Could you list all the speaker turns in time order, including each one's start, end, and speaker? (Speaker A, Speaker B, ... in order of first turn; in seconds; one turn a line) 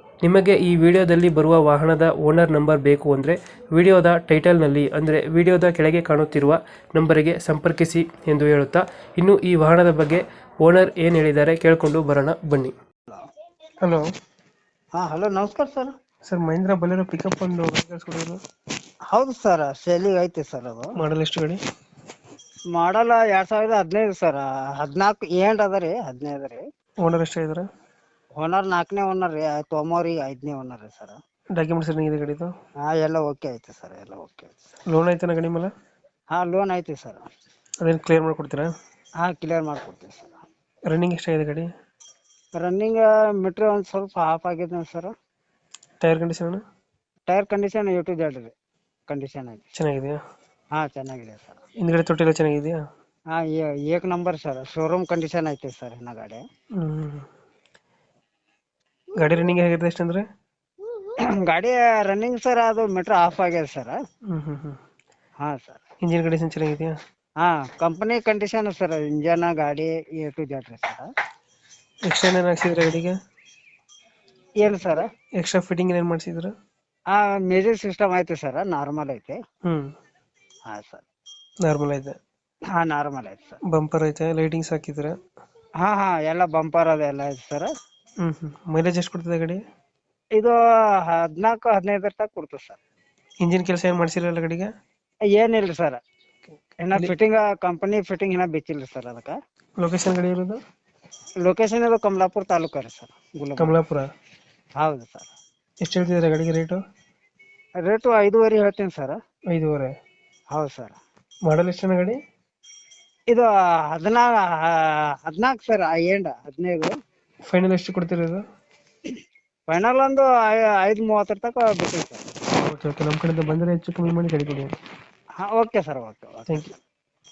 Speaker A: 0.2-12.7
Speaker B: 14.9-15.9
Speaker A: 16.2-18.4
Speaker B: 19.1-20.9
Speaker A: 21.0-21.6
Speaker B: 22.7-26.6
Speaker A: 27.0-27.6
Speaker B: 28.4-31.2
Speaker A: 31.5-32.5
Speaker B: 32.8-34.6
Speaker A: 34.9-35.7
Speaker B: 36.3-37.2
Speaker A: 37.8-38.7
Speaker B: 39.2-40.4
Speaker A: 40.9-41.7
Speaker B: 42.5-45.1
Speaker A: 46.0-46.6
Speaker B: 47.3-48.5
Speaker B: 49.1-49.6
Speaker A: 49.7-50.2
Speaker B: 50.7-51.6
Speaker A: 51.8-52.8
Speaker B: 53.3-56.4
Speaker A: 56.8-57.2
Speaker A: 59.2-60.2
Speaker B: 61.0-64.0
Speaker A: 64.3-64.8
Speaker B: 65.4-65.8
Speaker A: 66.0-67.0
Speaker B: 67.4-71.1
Speaker A: 72.0-73.1
Speaker B: 74.6-75.0
Speaker A: 75.4-76.5
Speaker B: 77.1-79.4
Speaker A: 79.6-79.9
Speaker B: 80.7-81.0
Speaker A: 81.6-82.2
Speaker B: 82.7-83.6
Speaker A: 83.7-85.1
Speaker B: 85.8-87.7
Speaker A: 88.2-89.6
Speaker B: 90.3-92.8
Speaker A: 93.4-94.7
Speaker B: 95.3-96.0
Speaker B: 96.8-99.4
Speaker A: 99.8-100.6
Speaker B: 101.4-103.7
Speaker A: 103.6-104.1
Speaker B: 104.8-105.3
Speaker A: 105.8-106.8
Speaker B: 107.8-109.2
Speaker A: 109.5-109.9
Speaker B: 110.5-111.0
Speaker A: 111.5-112.2
Speaker B: 113.3-116.9
Speaker A: 117.5-118.4
Speaker B: 119.7-122.2
Speaker A: 122.6-124.7
Speaker B: 125.4-126.7
Speaker A: 126.5-126.7